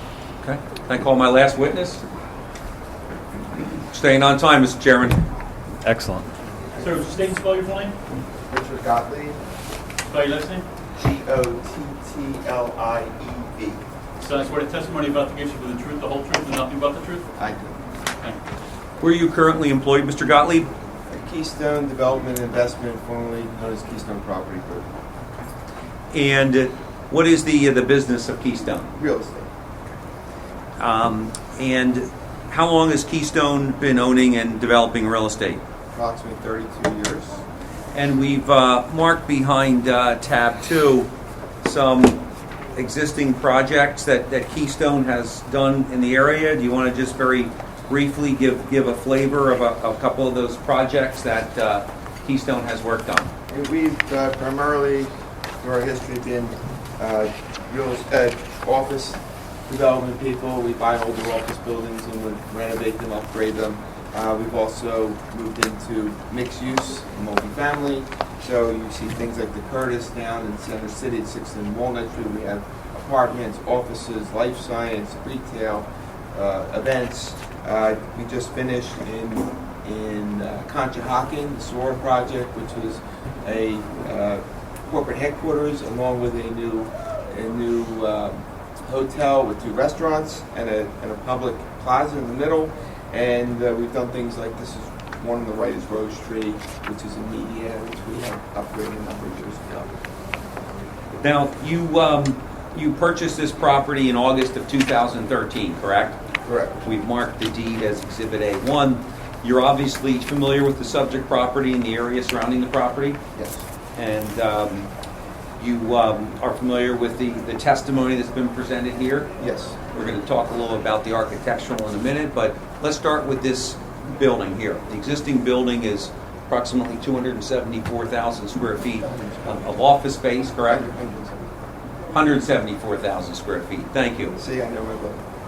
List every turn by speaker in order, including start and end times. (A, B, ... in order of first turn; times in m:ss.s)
0:00.4-0:02.0 A
0:03.9-0:05.2 A
0:06.8-0:08.0 B
0:08.5-0:09.4 C
0:10.1-0:10.6 B
0:11.0-0:13.8 C
0:14.2-0:17.3 B
0:17.4-0:17.8 C
0:19.0-0:20.7 A
0:21.1-0:24.9 C
0:26.1-0:28.9 A
0:29.0-0:29.5 C
0:30.8-0:35.6 A
0:36.0-0:37.4 C
0:37.9-0:41.1 A
0:41.6-0:42.2 A
0:42.8-0:53.3 A
0:53.5-0:55.1 C
0:55.6-1:39.9 C
1:41.2-1:46.2 A
1:46.4-1:46.8 C
1:46.8-1:53.2 A
1:53.4-1:53.6 C
1:54.0-1:54.9 A
1:55.6-1:59.3 A
1:59.4-1:59.8 C
1:59.9-2:10.9 A
2:09.1-2:09.6 C
2:10.7-2:11.4 C
2:12.1-2:14.4 A
2:14.4-2:15.2 C